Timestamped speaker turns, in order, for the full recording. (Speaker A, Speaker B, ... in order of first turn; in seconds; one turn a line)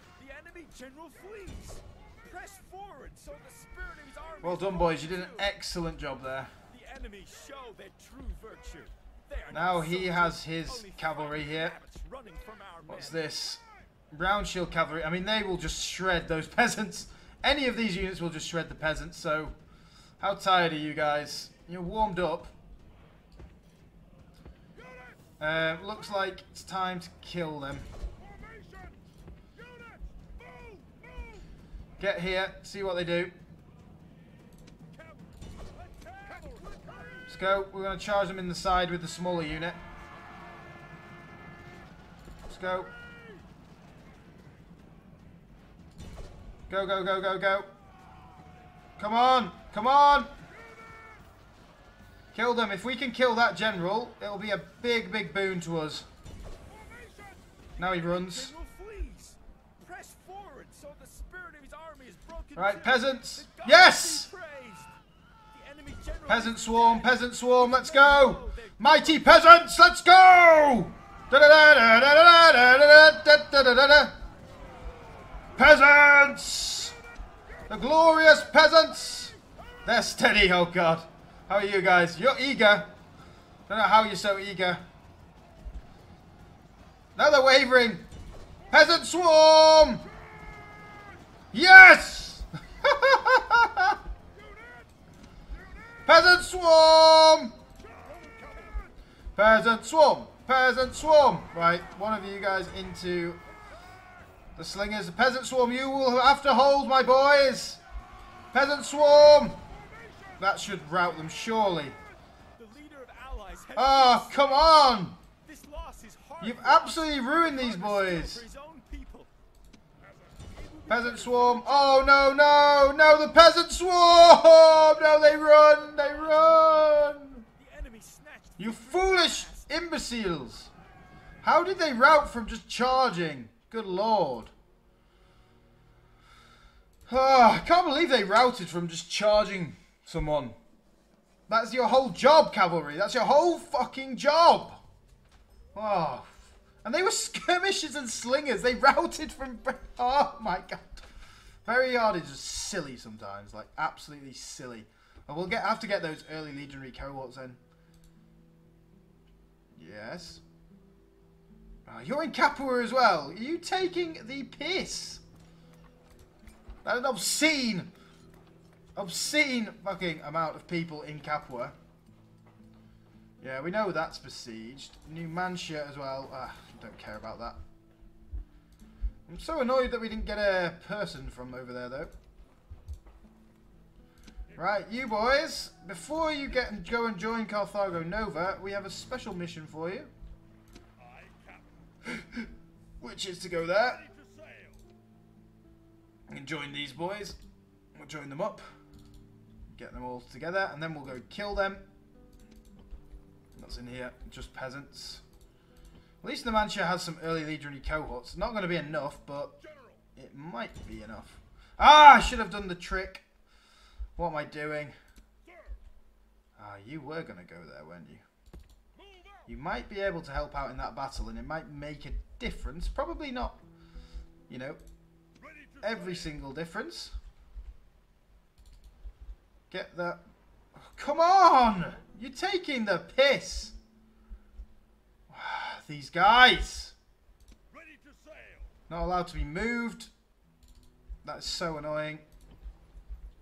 Speaker A: 0.2-5.5
Speaker B: 4.4-6.5
Speaker A: 6.7-13.2
Speaker B: 9.5-11.8
Speaker B: 12.9-13.6
Speaker B: 14.1-19.6
Speaker B: 20.2-22.5
Speaker B: 25.4-27.9
Speaker C: 28.3-28.9
Speaker C: 29.6-31.0
Speaker B: 32.0-33.3
Speaker C: 35.0-37.2
Speaker B: 37.3-39.8
Speaker B: 42.5-42.9
Speaker B: 46.7-47.7
Speaker B: 49.0-50.3
Speaker B: 52.3-56.1
Speaker B: 57.8-58.5
Speaker A: 58.1-65.0
Speaker B: 62.6-64.3
Speaker A: 65.5-69.4
Speaker B: 66.3-74.2
Speaker B: 75.5-77.0
Speaker B: 77.7-82.9
Speaker B: 83.7-84.8
Speaker B: 87.2-88.1
Speaker B: 88.7-90.1
Speaker B: 91.5-94.0
Speaker C: 94.4-94.7
Speaker B: 96.1-97.6
Speaker C: 97.9-98.9
Speaker B: 99.4-103.4
Speaker B: 104.6-107.8
Speaker B: 108.5-109.6
Speaker B: 110.4-112.0
Speaker A: 112.6-114.7
Speaker B: 113.8-115.2
Speaker A: 115.4-119.3
Speaker B: 116.4-118.4
Speaker A: 120.5-122.1
Speaker B: 120.9-127.5
Speaker A: 127.6-129.7
Speaker B: 128.6-130.7
Speaker B: 131.4-134.5
Speaker B: 137.1-140.6
Speaker B: 141.5-144.8
Speaker B: 145.7-151.1
Speaker B: 151.7-157.6
Speaker B: 159.8-160.4
Speaker B: 161.9-165.2
Speaker B: 166.8-167.9
Speaker B: 169.0-171.8
Speaker B: 173.4-177.6
Speaker B: 179.3-182.1
Speaker B: 184.6-190.1
Speaker C: 191.0-191.7
Speaker B: 192.1-192.5
Speaker B: 193.0-194.0
Speaker C: 194.0-194.8
Speaker B: 196.3-197.4
Speaker B: 197.9-198.7
Speaker B: 199.7-201.8
Speaker B: 203.6-205.2
Speaker B: 206.2-209.5
Speaker C: 209.7-210.0
Speaker B: 210.2-213.2
Speaker B: 214.2-215.0
Speaker B: 216.6-218.2
Speaker C: 219.0-219.2
Speaker B: 219.5-223.6
Speaker B: 224.5-224.8
Speaker C: 225.4-226.1
Speaker B: 225.8-227.2
Speaker B: 229.7-230.2
Speaker B: 230.8-233.8
Speaker B: 235.3-236.9
Speaker C: 237.7-238.7
Speaker B: 238.9-240.1
Speaker B: 241.2-242.2